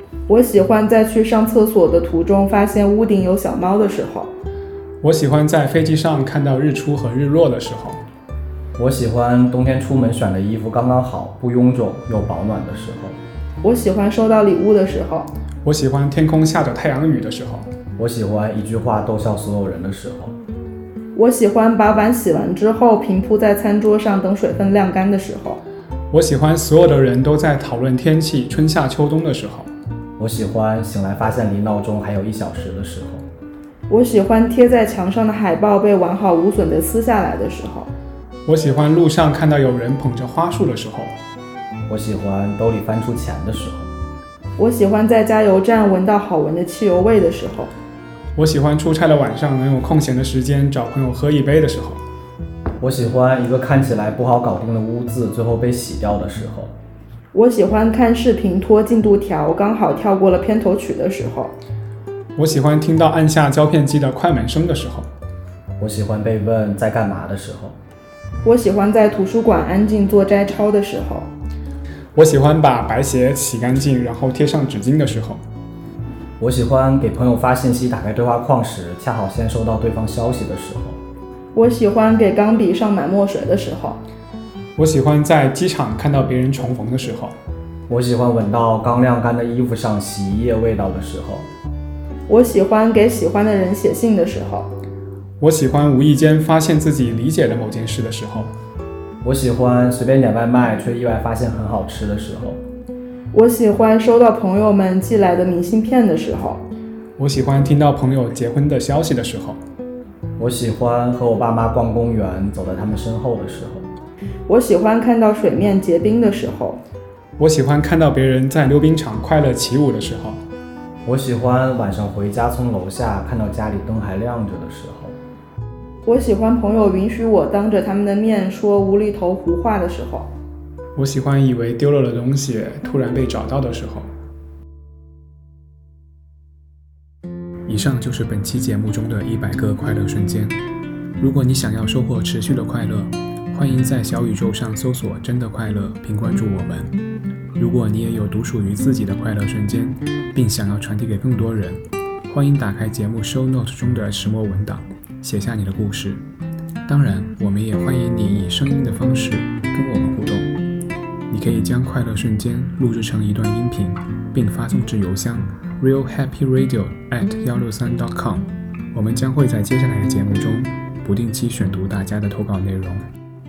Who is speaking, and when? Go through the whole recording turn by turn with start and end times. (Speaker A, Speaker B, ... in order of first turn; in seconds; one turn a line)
Speaker A: 0.3-4.3
Speaker B: 5.0-8.0
Speaker C: 8.8-13.2
Speaker A: 13.6-15.3
Speaker B: 15.6-17.7
Speaker C: 18.0-20.4
Speaker A: 21.1-25.6
Speaker B: 26.1-29.7
Speaker C: 30.2-33.2
Speaker A: 33.9-37.9
Speaker B: 38.5-41.1
Speaker C: 41.9-43.9
Speaker A: 44.6-47.7
Speaker B: 48.4-52.0
Speaker C: 52.8-56.7
Speaker A: 57.3-61.5
Speaker B: 62.4-65.1
Speaker C: 65.8-67.8
Speaker A: 68.4-71.3
Speaker B: 72.2-75.4
Speaker C: 76.4-81.0
Speaker A: 81.5-84.0
Speaker B: 84.8-87.3
Speaker C: 87.9-91.5
Speaker A: 92.3-94.7
Speaker B: 95.4-98.5
Speaker C: 99.2-102.6
Speaker A: 103.3-106.6
Speaker B: 107.2-109.6
Speaker C: 110.4-113.9
Speaker A: 114.5-116.8
Speaker B: 117.4-120.4
Speaker C: 121.0-125.2
Speaker A: 126.0-130.3
Speaker B: 131.0-134.1
Speaker B: 137.7-140.6
Speaker B: 141.2-146.9
Speaker B: 147.6-156.2
Speaker B: 156.9-160.5
Speaker B: 161.3-173.1